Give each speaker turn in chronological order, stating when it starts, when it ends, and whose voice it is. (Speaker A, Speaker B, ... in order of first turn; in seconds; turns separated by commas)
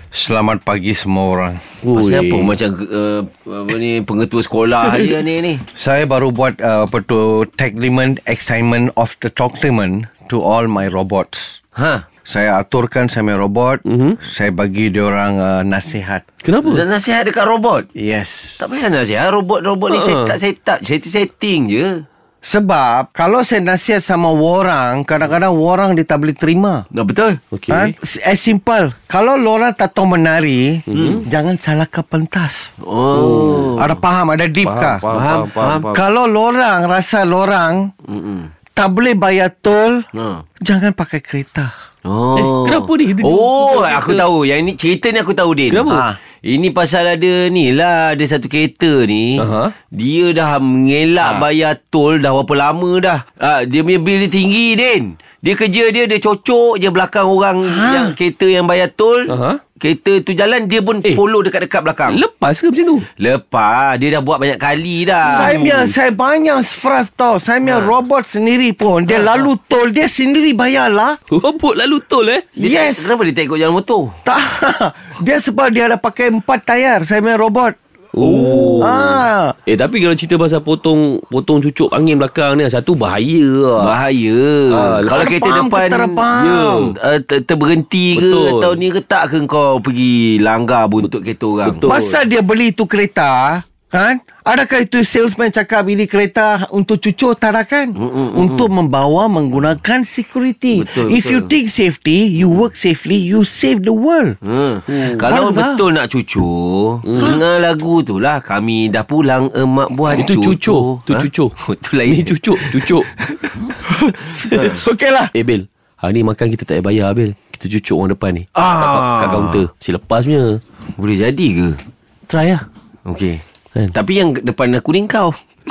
Speaker A: 0.1-1.6, Speaker B: 1.8-2.5, Speaker C: 1.9-5.6, Speaker A: 5.7-11.6, Speaker C: 11.8-12.1, Speaker A: 12.2-16.2, Speaker B: 13.8-14.2, Speaker B: 16.4-16.8, Speaker C: 16.6-17.9, Speaker A: 17.9-18.6, Speaker C: 18.6-22.0, Speaker B: 19.9-20.3, Speaker A: 22.4-26.9, Speaker C: 26.9-27.4, Speaker B: 27.5-27.9, Speaker A: 27.7-32.7, Speaker B: 30.9-31.2, Speaker C: 30.9-31.2, Speaker C: 32.8-33.9, Speaker B: 33.1-33.8, Speaker A: 33.8-35.0, Speaker B: 34.6-36.0, Speaker C: 35.1-35.9, Speaker A: 35.9-37.9, Speaker C: 38.1-38.5, Speaker A: 38.8-40.0, Speaker C: 40.1-40.4, Speaker A: 40.6-41.7, Speaker C: 42.0-45.9, Speaker B: 42.3-44.2, Speaker B: 45.7-46.1, Speaker A: 45.9-46.2, Speaker C: 46.4-62.2, Speaker B: 49.4-49.7, Speaker A: 57.6-58.1, Speaker B: 59.3-59.6, Speaker B: 62.1-63.0, Speaker C: 63.1-65.6, Speaker A: 65.2-71.2, Speaker B: 65.2-65.9, Speaker C: 67.7-67.9, Speaker B: 71.3-72.5, Speaker A: 72.5-73.1, Speaker C: 72.6-74.2, Speaker A: 74.2-77.8, Speaker B: 78.1-79.0, Speaker C: 78.2-79.1, Speaker A: 78.3-79.5, Speaker B: 79.7-83.9, Speaker C: 83.8-86.3, Speaker B: 84.7-85.4, Speaker A: 85.1-86.9, Speaker B: 86.3-86.9, Speaker C: 86.9-91.9, Speaker B: 88.1-88.8, Speaker B: 91.6-92.2, Speaker A: 91.8-104.4, Speaker C: 98.0-98.7, Speaker C: 100.7-101.5, Speaker C: 104.4-112.8, Speaker A: 104.9-105.8, Speaker B: 105.0-105.2, Speaker B: 107.0-107.4, Speaker B: 110.1-111.5, Speaker B: 112.1-113.1, Speaker A: 113.8-115.3, Speaker B: 115.3-120.6, Speaker C: 118.5-119.6, Speaker C: 120.9-121.8, Speaker B: 122.3-122.6, Speaker C: 123.0-125.4